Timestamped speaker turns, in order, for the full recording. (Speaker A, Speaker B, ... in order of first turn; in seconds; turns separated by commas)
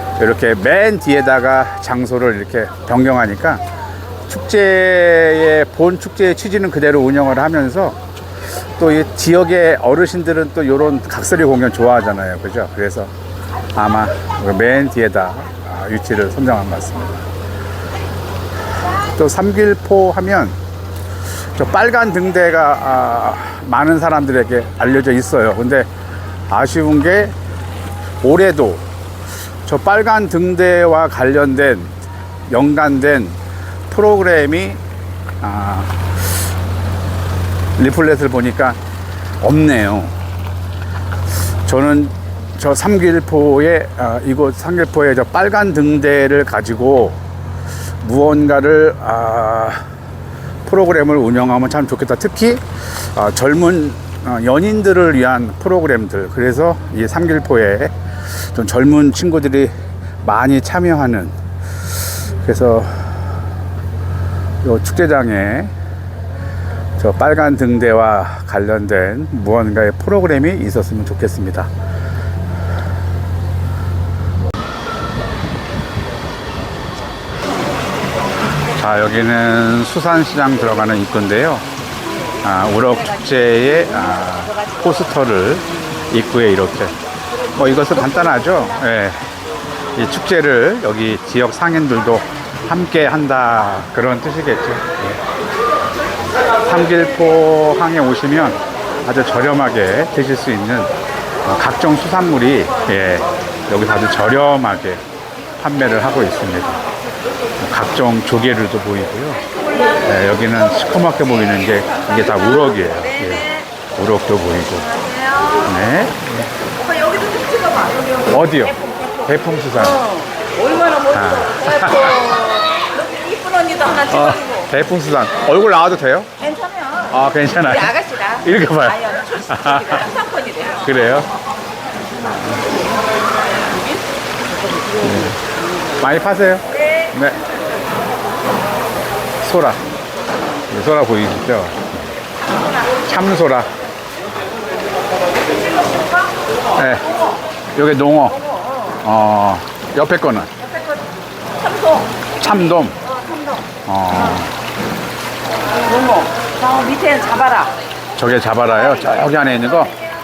Speaker A: 0.2-3.6, Speaker A: 4.3-8.0, Speaker A: 8.8-13.1, Speaker A: 13.7-17.3, Speaker A: 19.1-20.6, Speaker A: 21.5-25.9, Speaker A: 26.5-27.3, Speaker A: 28.2-28.9, Speaker A: 29.6-31.9, Speaker A: 32.5-34.8, Speaker A: 35.4-36.1, Speaker A: 37.8-38.8, Speaker A: 39.4-40.1, Speaker A: 41.6-47.2, Speaker A: 48.0-49.8, Speaker A: 50.6-57.9, Speaker A: 58.5-59.7, Speaker A: 60.2-61.3, Speaker A: 62.1-63.1, Speaker A: 64.6-65.7, Speaker A: 67.0-71.7, Speaker A: 78.7-81.7, Speaker A: 82.4-87.0, Speaker A: 87.5-89.2, Speaker A: 90.0-95.2, Speaker A: 96.6-100.9, Speaker A: 101.4-105.0, Speaker A: 105.6-106.8, Speaker A: 107.6-109.4, Speaker A: 110.0-115.0, Speaker A: 115.6-116.5, Speaker B: 116.9-118.1, Speaker A: 118.3-120.1, Speaker B: 120.3-121.1, Speaker A: 121.1-122.3, Speaker B: 121.9-124.1, Speaker A: 124.1-126.3, Speaker B: 126.5-127.0, Speaker A: 127.0-130.1, Speaker B: 127.9-128.4, Speaker B: 129.0-130.8, Speaker A: 130.7-131.3, Speaker A: 132.2-132.6, Speaker B: 133.6-134.0, Speaker A: 135.0-135.4, Speaker A: 135.9-137.4, Speaker A: 139.4-139.8, Speaker A: 140.7-142.2, Speaker A: 143.0-143.7, Speaker A: 146.8-147.2, Speaker A: 147.7-148.4, Speaker A: 148.9-150.5, Speaker B: 151.6-152.1, Speaker A: 152.4-153.0, Speaker B: 153.3-153.6, Speaker A: 153.8-154.5, Speaker B: 155.8-157.8, Speaker A: 158.2-159.9